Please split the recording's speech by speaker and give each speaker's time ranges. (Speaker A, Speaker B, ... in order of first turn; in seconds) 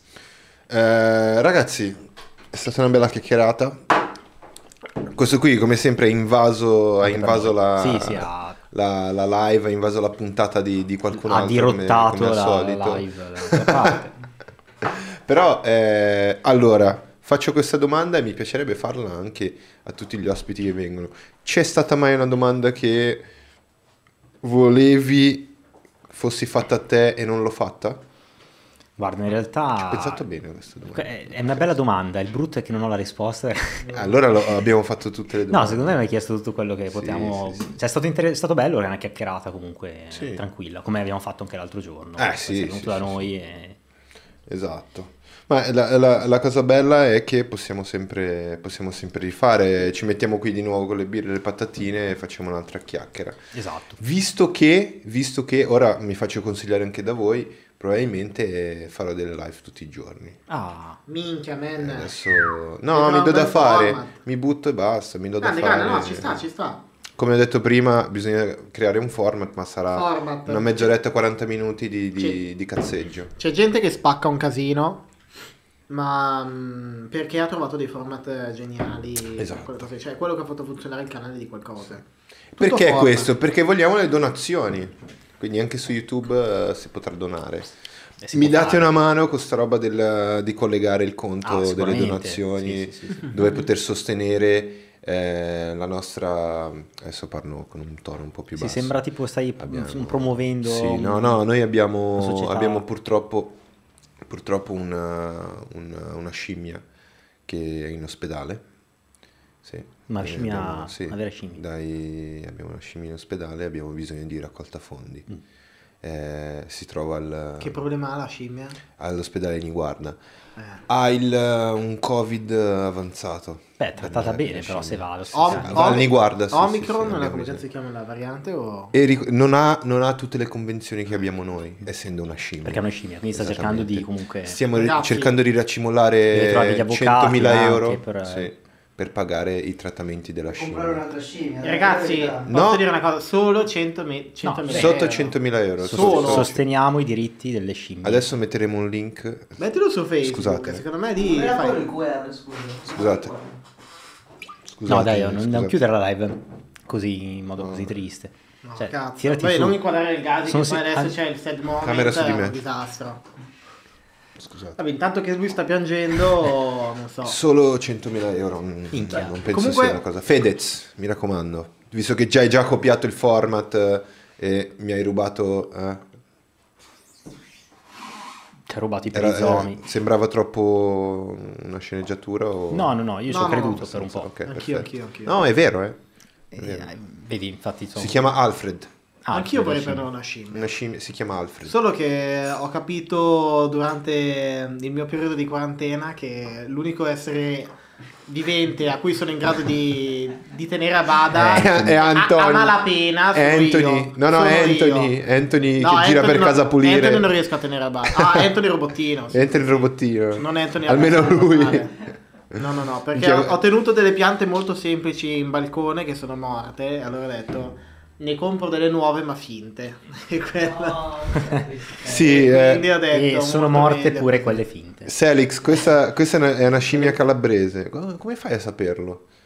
Speaker A: 0.7-4.0, 5.0-14.0, 14.8-23.3, 24.4-25.5, 26.1-28.0, 29.8-31.7, 33.9-36.1, 36.9-37.8, 40.1-40.4, 42.2-43.2, 44.5-53.4, 54.0-60.4, 61.8-66.4, 67.2-73.3, 79.4-79.9, 82.5-87.7, 88.3-99.0, 99.6-103.6, 104.2-106.8, 107.5-108.6, 109.6-115.3, 116.0-117.8, 119.0-120.2, 120.9-127.6, 128.9-141.0, 142.5-142.8, 144.7-146.6, 148.0-149.6, 150.2-150.8, 152.9-153.3, 154.7-155.8, 157.6-157.9, 161.8-162.6, 164.4-164.8, 167.2-176.1, 179.1-183.0, 183.7-186.0, 186.6-186.9, 188.0-188.9, 190.5-191.8, 201.3-202.8, 203.3-207.3, 208.1-208.5, 209.3-211.9, 212.6-213.6, 222.0-222.9, 225.1-229.2
Speaker B: 7.0-8.6, 11.1-14.1, 29.0-30.2, 30.9-33.9, 35.5-43.8, 53.5-54.0, 60.5-61.0, 88.2-88.9, 91.4-93.4, 98.6-101.4, 102.2-102.8, 110.1-111.6, 123.8-126.0, 132.7-134.6, 136.3-138.5, 144.4-145.0, 145.8-148.2, 154.9-159.8, 160.5-161.1, 168.9-169.4, 178.7-179.8, 182.7-184.3, 186.5-188.3, 189.2-190.1, 223.1-225.1
Speaker C: 61.1-62.1, 62.9-64.2, 65.4-66.8, 69.9-70.9, 73.4-75.0, 75.9-82.0, 82.6-83.3, 117.6-118.8, 120.6-120.8, 125.3-128.9, 134.7-135.3, 141.6-145.3, 145.9-146.5, 149.6-151.9, 158.7-163.2, 164.8-167.4, 169.4-170.0, 183.3-183.9, 184.4-185.4, 189.3-190.7, 191.7-197.7, 198.3-205.1, 205.8-212.0, 212.6-224.6
Speaker D: 140.5-142.5, 151.2-153.4, 220.6-222.5